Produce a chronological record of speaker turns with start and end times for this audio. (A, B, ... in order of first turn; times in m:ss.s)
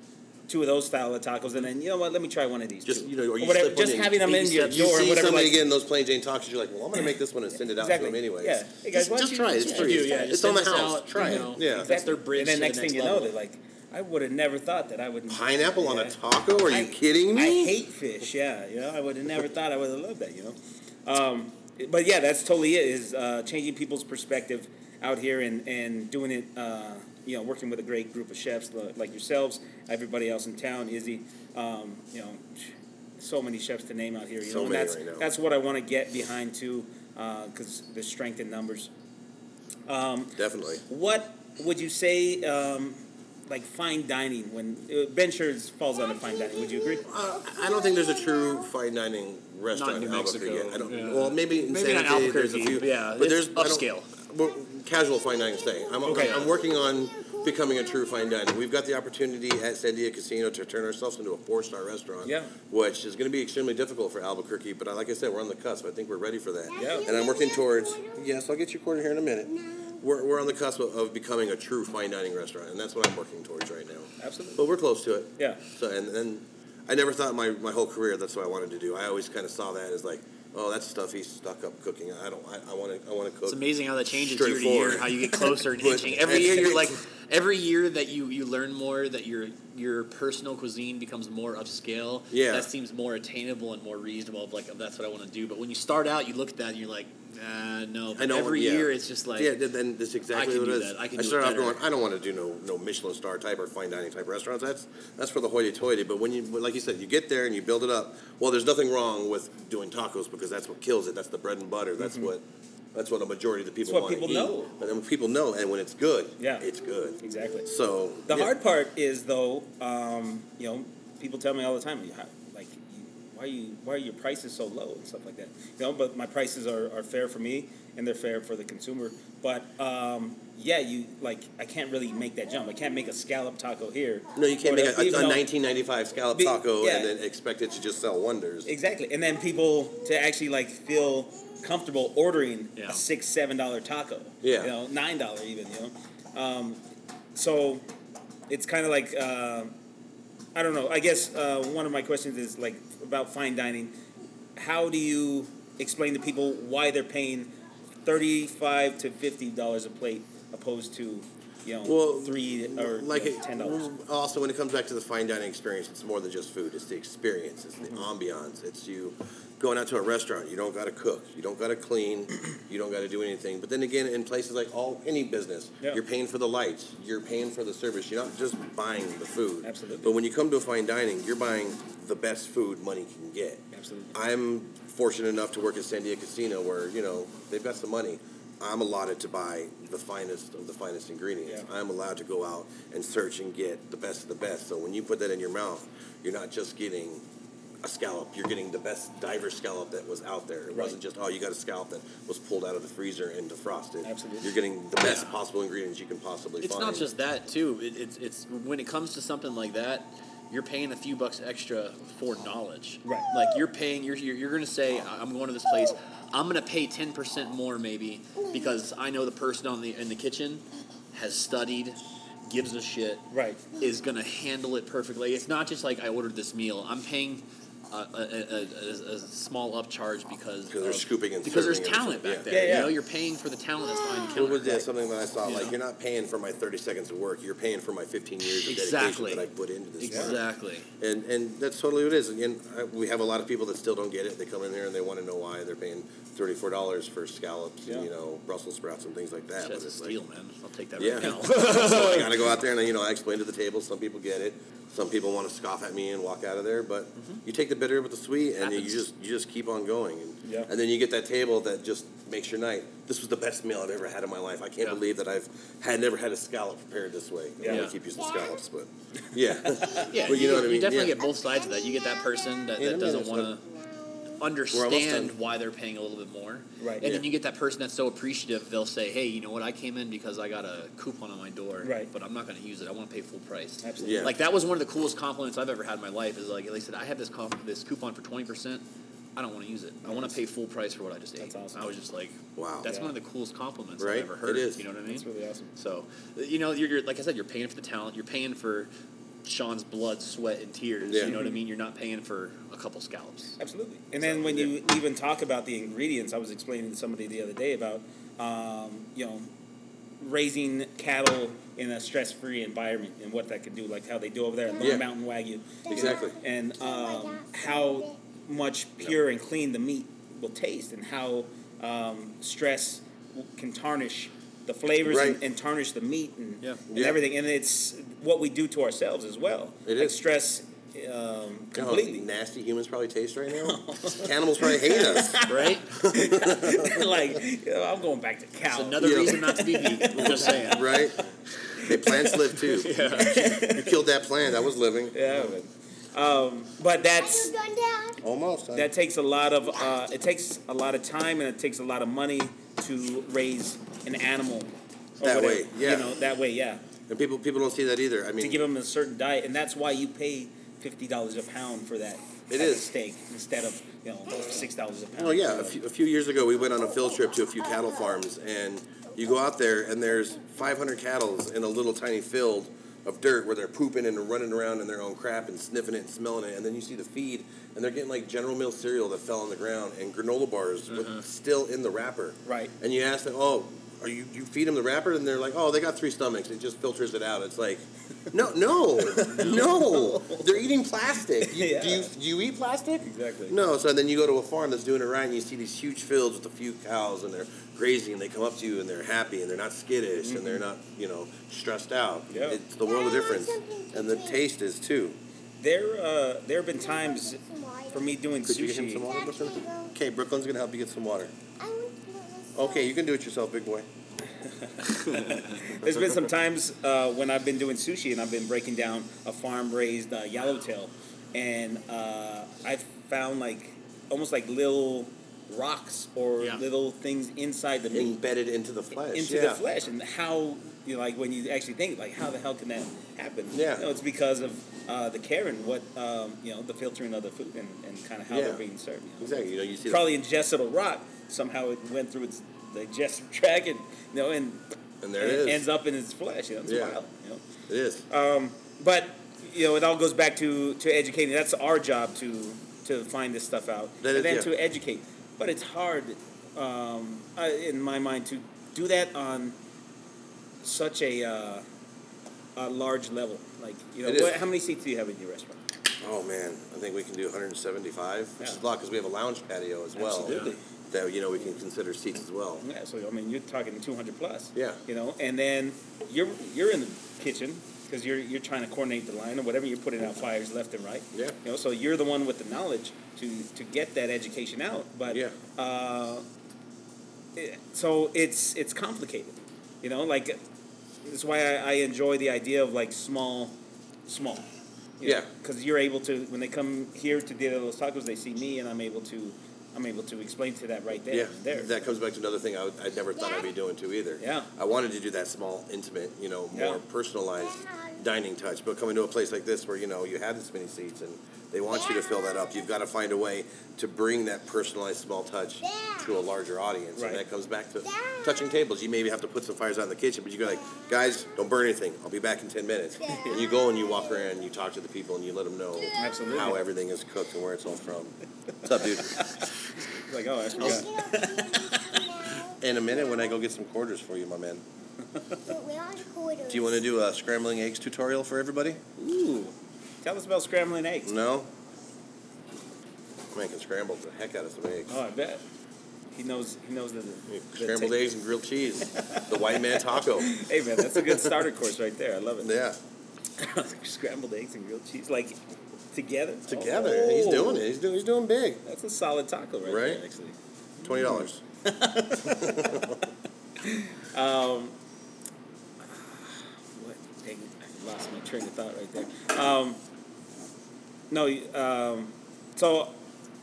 0:00.5-0:05.6 A
0:02.8-0:11.9 B
0:07.8-0:10.2 A
0:09.5-0:13.3 C
0:11.2-0:38.9 A
0:15.3-0:17.7 B
0:34.4-0:35.3 B
0:39.9-0:47.0 A
0:40.4-0:40.8 B
0:46.0-0:48.7 D
0:47.0-1:27.0 B
0:49.7-0:54.1 C
0:55.1-0:58.5 D
0:56.0-0:56.4 A
0:56.1-0:56.4 C
1:02.2-1:02.5 A
1:06.7-1:08.2 D
1:06.8-1:07.1 A
1:09.4-1:10.0 D
1:14.2-1:14.6 A
1:23.5-1:39.5 C
1:32.3-1:32.7 B
1:38.1-1:58.5 B
1:40.3-1:41.8 C
1:52.0-1:52.3 A
1:53.8-1:54.7 A
1:56.4-1:56.7 A
1:57.2-1:57.7 A
1:58.3-2:15.5 A
2:14.4-2:18.7 B
2:16.4-2:17.1 A
2:18.6-2:26.8 A
2:22.8-2:23.0 C
2:24.4-2:24.7 B
2:27.4-2:27.8 A
2:28.5-2:29.7 A
2:30.6-2:33.9 A
2:34.6-2:37.5 A
2:38.0-2:43.9 A
2:41.8-3:17.2 B
2:59.6-3:00.2 A
3:03.7-3:04.1 A
3:17.8-3:27.1 B
3:20.7-3:21.0 A
3:24.0-3:24.6 A
3:25.0-3:25.3 C
3:26.6-3:43.3 C
3:33.0-3:33.3 A
3:43.3-3:43.6 A
3:43.8-3:54.9 C
3:50.7-3:52.9 B
3:52.5-3:52.9 A
3:53.8-3:54.4 D
3:54.3-4:00.4 B
3:55.4-3:55.8 C
3:58.6-4:00.9 C
4:00.1-4:00.4 A
4:01.0-4:10.2 B
4:09.6-4:12.5 C
4:11.0-4:31.2 B
4:18.6-4:19.0 C
4:20.4-4:20.7 A
4:27.6-4:27.9 A
4:27.6-4:28.0 C
4:28.1-4:28.6 D
4:29.6-4:30.0 A
4:30.0-4:34.4 D
4:30.0-4:33.6 C
4:32.8-4:33.5 B
4:34.4-4:48.8 C
4:34.7-4:35.4 B
4:36.8-4:37.1 A
4:41.8-4:42.1 A
4:43.8-4:44.3 A
4:44.0-4:44.4 B
4:49.4-4:58.9 C
4:50.1-4:50.3 B
4:51.4-4:52.0 A
4:52.6-4:52.9 B
4:52.8-4:53.1 A
4:54.0-4:54.9 B
4:55.1-4:55.7 A
4:59.4-5:03.6 C
5:01.0-5:01.4 B
5:01.2-5:01.6 A
5:03.6-5:09.5 A
5:04.2-5:04.7 B
5:10.2-5:32.3 A
5:14.7-5:15.0 D
5:14.8-5:15.1 B
5:15.8-5:18.2 D
5:15.9-5:16.4 B
5:25.0-5:25.4 B
5:26.9-5:27.2 B
5:29.9-5:30.1 B
5:31.8-5:37.1 B
5:33.5-5:40.7 A
5:35.5-5:36.1 C
5:38.7-5:43.8 C
5:39.0-5:39.4 B
5:40.1-5:45.3 B
5:41.8-5:44.0 A
5:45.1-5:47.5 A
5:47.1-5:48.2 D
5:48.2-5:48.9 B
5:48.7-5:56.8 A
5:55.2-5:56.2 B
5:57.1-5:58.7 B
5:58.4-6:05.8 A
6:02.5-6:02.9 B
6:05.1-6:45.2 B
6:06.6-6:08.2 D
6:20.9-6:21.2 C
6:22.5-6:22.7 A
6:29.0-6:30.5 A
6:31.4-6:32.1 A
6:33.0-6:33.6 A
6:40.2-6:40.6 A
6:42.3-6:42.6 A
6:42.8-6:44.4 D
6:45.6-6:47.4 A
6:46.8-6:48.2 D
6:47.9-6:49.1 A
6:48.4-6:51.3 B
6:49.0-6:50.0 D
6:51.6-6:52.9 D
6:52.6-6:53.9 B
6:54.4-7:08.2 A
6:55.1-6:55.4 C
7:07.9-7:09.6 B
7:09.1-7:27.4 A
7:13.5-7:13.9 B
7:18.3-7:18.6 B
7:19.2-7:20.1 B
7:25.0-7:25.6 B
7:26.6-7:27.0 B
7:27.7-7:28.0 B
7:28.1-7:39.6 A
7:34.0-7:34.5 B
7:40.6-7:41.6 A
7:42.6-7:45.6 A
7:44.0-7:44.4 B
7:46.0-7:52.6 B
7:50.0-7:50.6 A
7:50.3-7:50.5 C
7:52.6-8:06.2 A
7:54.6-7:54.8 B
8:01.1-8:01.4 B
8:05.1-8:05.4 B
8:07.4-8:10.4 A
8:11.0-8:13.6 A
8:14.1-8:14.4 A
8:15.0-8:21.7 A
8:15.0-8:15.3 B
8:21.1-8:49.3 B
8:23.2-8:23.5 D
8:24.2-8:24.5 A
8:26.5-8:26.8 A
8:27.4-8:28.1 D
8:31.7-8:32.7 D
8:35.6-8:36.2 D
8:37.0-8:37.2 A
8:37.8-8:38.6 D
8:40.4-8:41.4 D
8:43.0-8:44.4 D
8:43.1-8:43.4 A
8:45.8-8:46.5 D
8:46.0-8:46.6 A
8:49.0-8:52.1 A
8:50.5-8:53.4 D
8:52.6-8:54.6 B
8:55.4-8:56.8 D
8:56.5-8:58.8 B
8:59.0-9:01.1 A
9:01.0-9:01.5 B
9:03.3-9:05.0 B
9:04.9-9:05.4 A
9:06.1-9:08.0 A
9:07.3-9:11.4 B
9:08.9-9:12.5 A
9:12.4-9:12.8 B
9:13.4-9:15.4 A
9:15.9-9:17.7 A
9:16.5-9:18.6 B
9:18.6-9:23.0 A
9:19.6-9:20.0 B
9:20.8-9:21.4 B
9:22.2-9:23.0 B
9:23.6-9:24.8 A
9:25.9-9:29.8 A
9:31.1-9:33.0 A